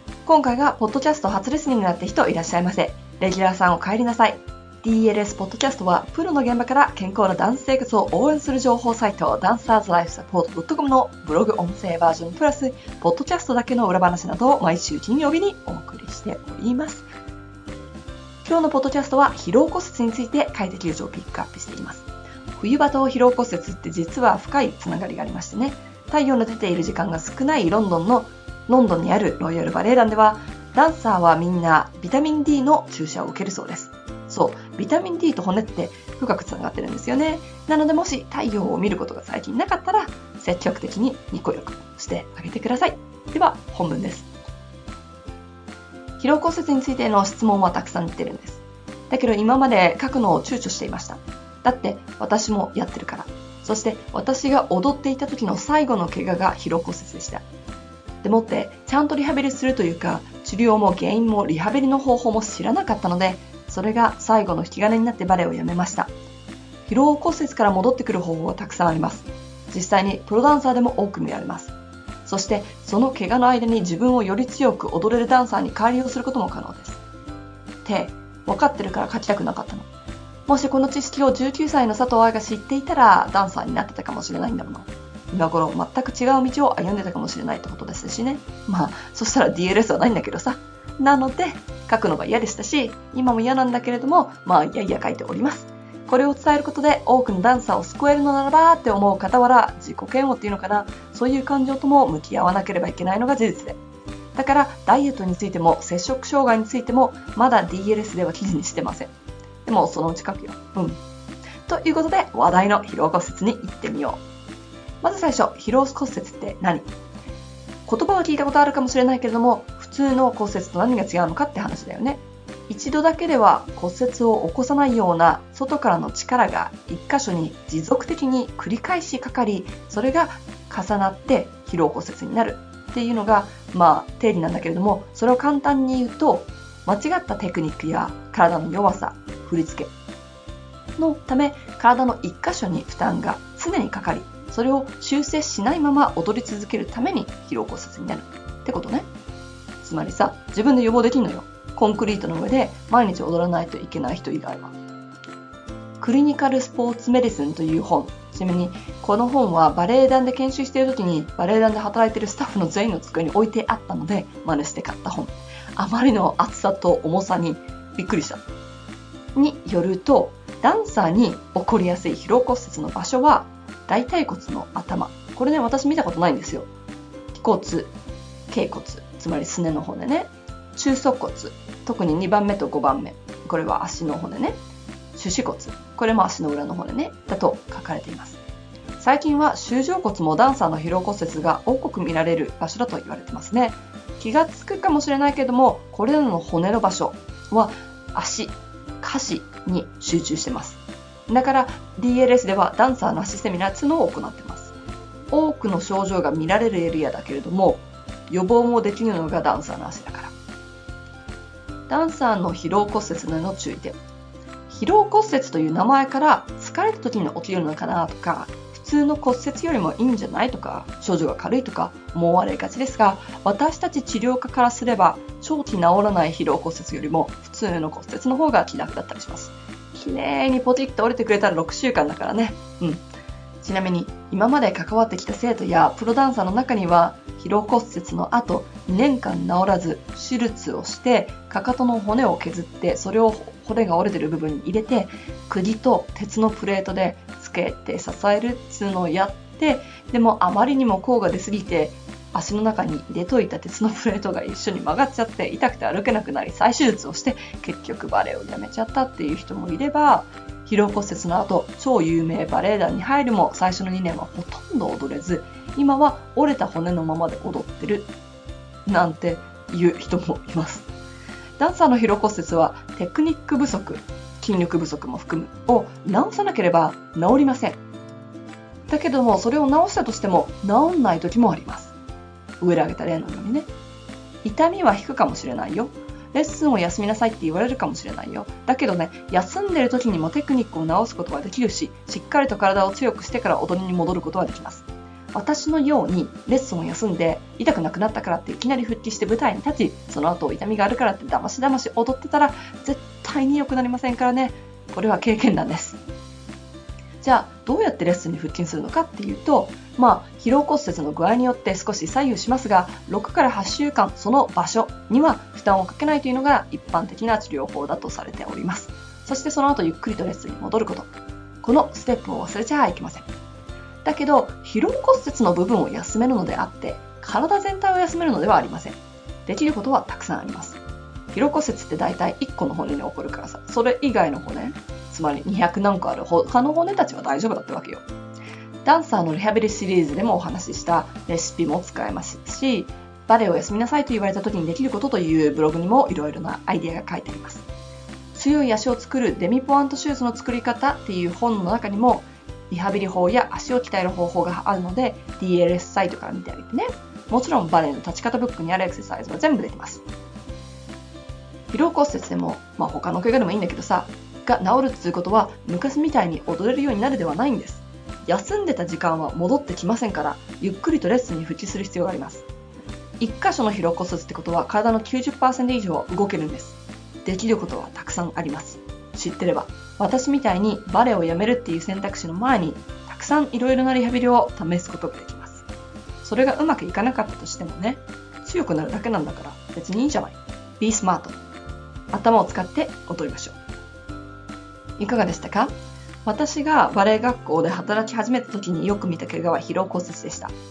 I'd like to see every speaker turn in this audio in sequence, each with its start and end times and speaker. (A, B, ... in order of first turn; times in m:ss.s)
0:00.2-0:17.1 A
0:18.4-0:44.3 A
0:46.2-0:57.4 A
0:58.2-1:06.1 A
1:06.8-1:17.0 A
1:17.8-1:19.9 A
1:20.5-1:43.8 A
1:44.3-1:49.1 A
1:49.6-1:51.0 A
1:51.6-1:54.2 A
1:55.0-1:56.9 A
1:57.8-2:19.9 A
2:21.0-2:29.1 A
2:29.8-2:34.8 A
2:36.0-2:48.4 A
2:49.3-2:56.7 A
2:57.3-2:57.9 A
2:58.5-3:04.6 A
3:05.1-3:08.4 A
3:09.0-3:24.7 A
3:25.3-3:30.3 A
3:31.9-3:34.0 A
3:34.7-3:53.0 A
3:53.6-4:28.1 A
4:28.8-4:30.9 A
4:31.6-4:37.8 A
4:38.9-4:41.9 A
4:42.6-4:43.7 A
4:44.4-5:06.0 A
5:07.2-5:23.3 A
5:24.0-5:30.8 A
5:31.3-5:38.0 A
5:38.8-5:47.6 A
5:48.3-6:00.0 A
6:01.7-6:12.5 A
6:13.2-6:25.6 A
6:26.2-6:31.4 A
6:32.1-6:33.6 A
6:35.0-6:40.5 A